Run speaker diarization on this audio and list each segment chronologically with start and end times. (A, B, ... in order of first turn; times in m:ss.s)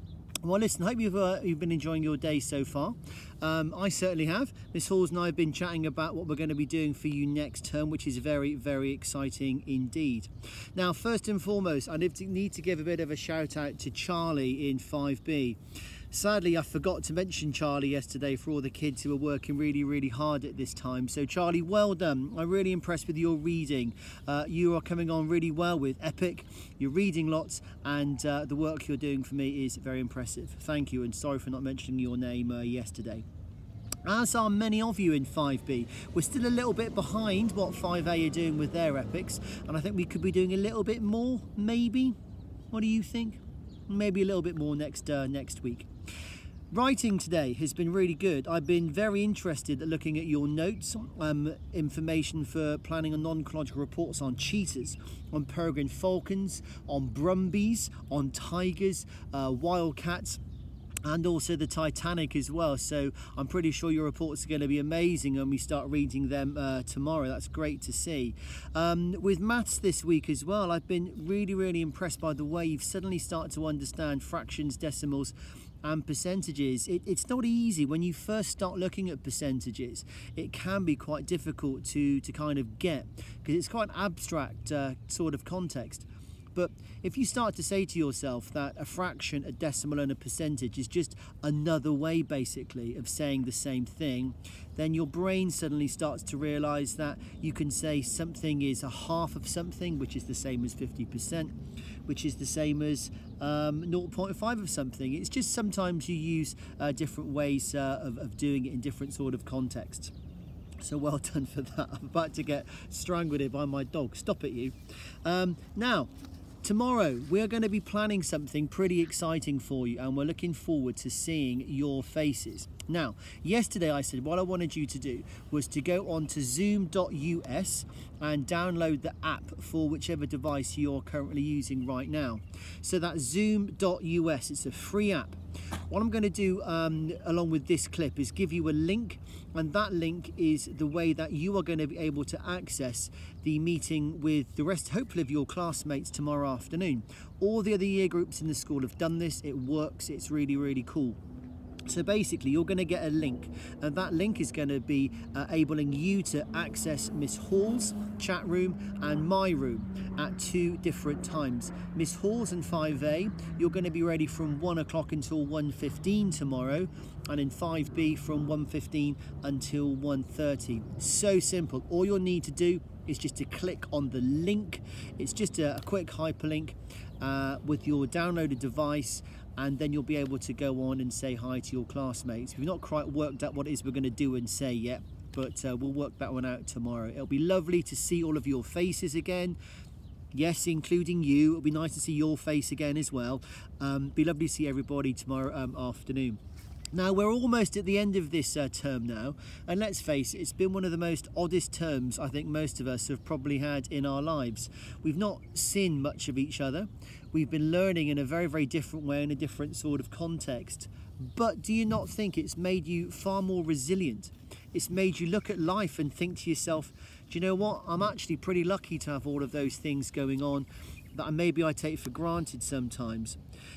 0:00.4-0:15.6 A
0:16.1-0:33.2 A
0:34.0-0:42.2 A
0:42.7-0:45.9 A
0:46.7-1:00.4 A
1:01.0-1:41.5 A
1:42.1-1:50.1 A
1:50.8-1:56.1 A
1:56.6-2:15.4 A
2:15.9-2:31.2 A
2:31.8-3:09.6 A
3:10.3-3:16.4 A
3:16.9-3:43.4 A